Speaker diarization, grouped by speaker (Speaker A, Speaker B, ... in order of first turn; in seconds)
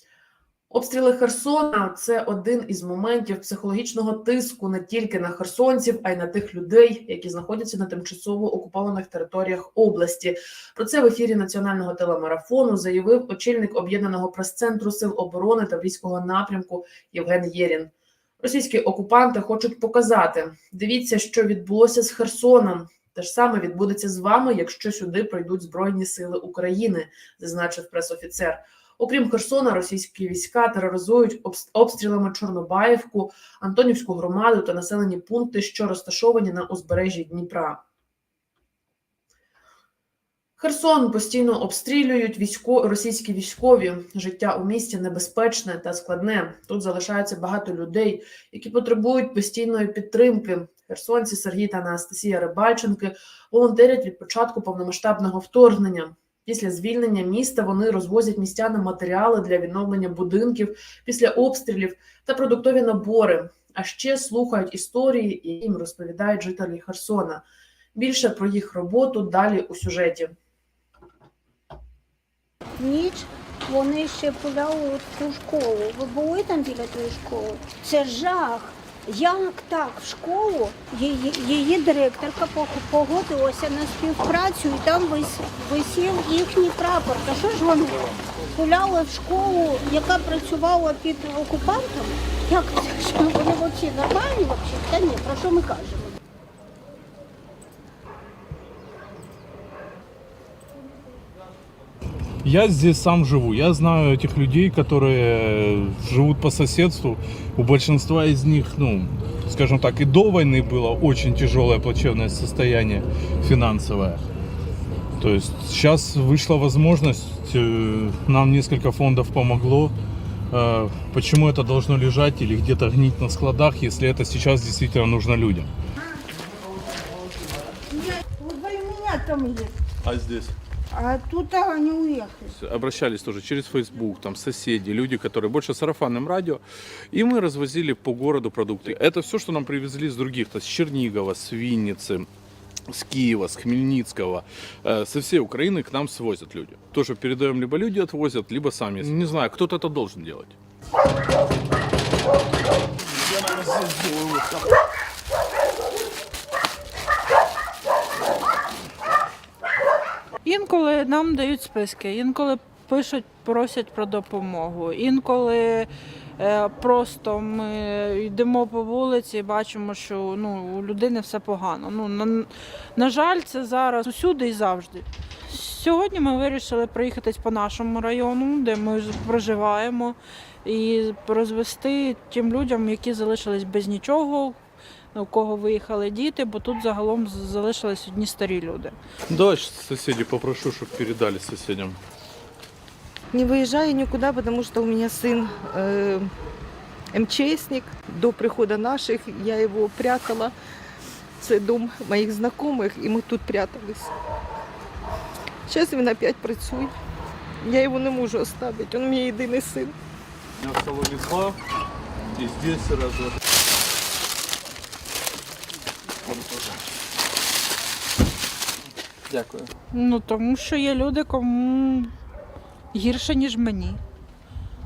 Speaker A: 0.7-37.8, 40.6-67.4, 67.9-70.3
Speaker B: 72.8-96.2, 127.9-129.7, 130.9-132.5
Speaker C: 102.4-114.2, 115.2-119.9, 120.5-125.7, 130.0-130.5, 132.5-142.3, 142.9-150.6, 189.3-192.0, 210.6-211.6, 212.3-213.3, 216.2-216.7, 219.3-219.7
Speaker D: 160.4-184.6, 185.1-188.9, 219.9-222.1, 222.9-224.0
Speaker E: 193.3-196.3, 197.1-200.5, 201.4-204.1, 205.7-206.9, 207.6-209.9